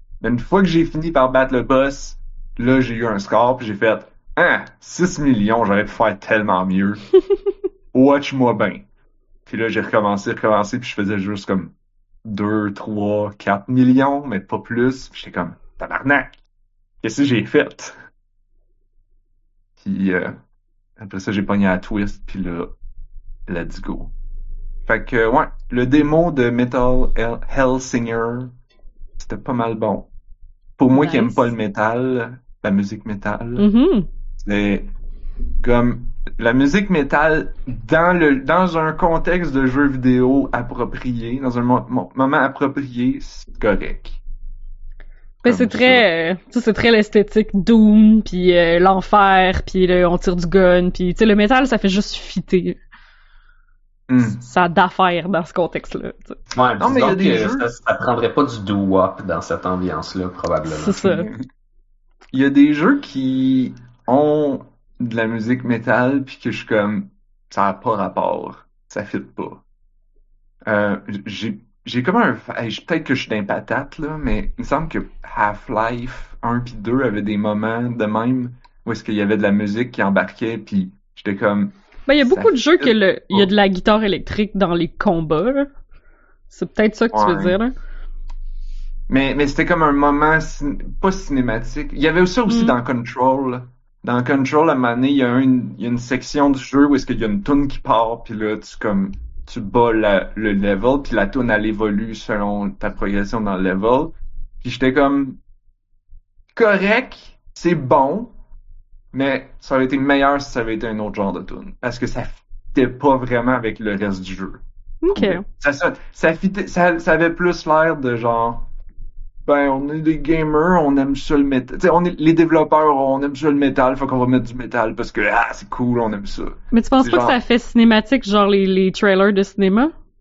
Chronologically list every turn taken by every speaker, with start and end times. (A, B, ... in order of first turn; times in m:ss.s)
0:00.2-0:07.0 A
0:07.9-0:08.8 A
0:09.4-0:11.7 A
0:12.2-0:16.4 A
0:17.0-0:17.9 A
0:19.8-0:20.4 A
0:21.0-0:22.7 A
0:23.5-0:24.1 A
0:24.9-0:28.5 A
0:29.2-0:30.1 A
0:30.8-0:33.6 A
0:30.9-0:31.5 B
0:33.6-0:34.1 B
0:34.4-0:34.9 A
0:35.6-0:44.2 A
0:45.4-0:52.8 B
0:45.4-0:46.0 A
0:54.1-0:54.4 A
0:54.2-0:56.4 B
0:56.5-1:01.1 C
0:56.8-0:57.7 A
1:00.7-1:01.3 B
1:01.0-1:01.4 A
1:02.3-1:09.6 A
1:10.6-1:23.5 A
1:22.1-1:25.7 B
1:26.5-1:27.7 B
1:27.1-1:27.6 A
1:29.1-1:45.4 A
1:32.5-1:32.7 B
1:46.5-1:48.3 A
1:49.1-1:58.7 A
1:55.0-1:55.4 B
1:59.4-2:07.4 A
2:06.7-2:09.9 B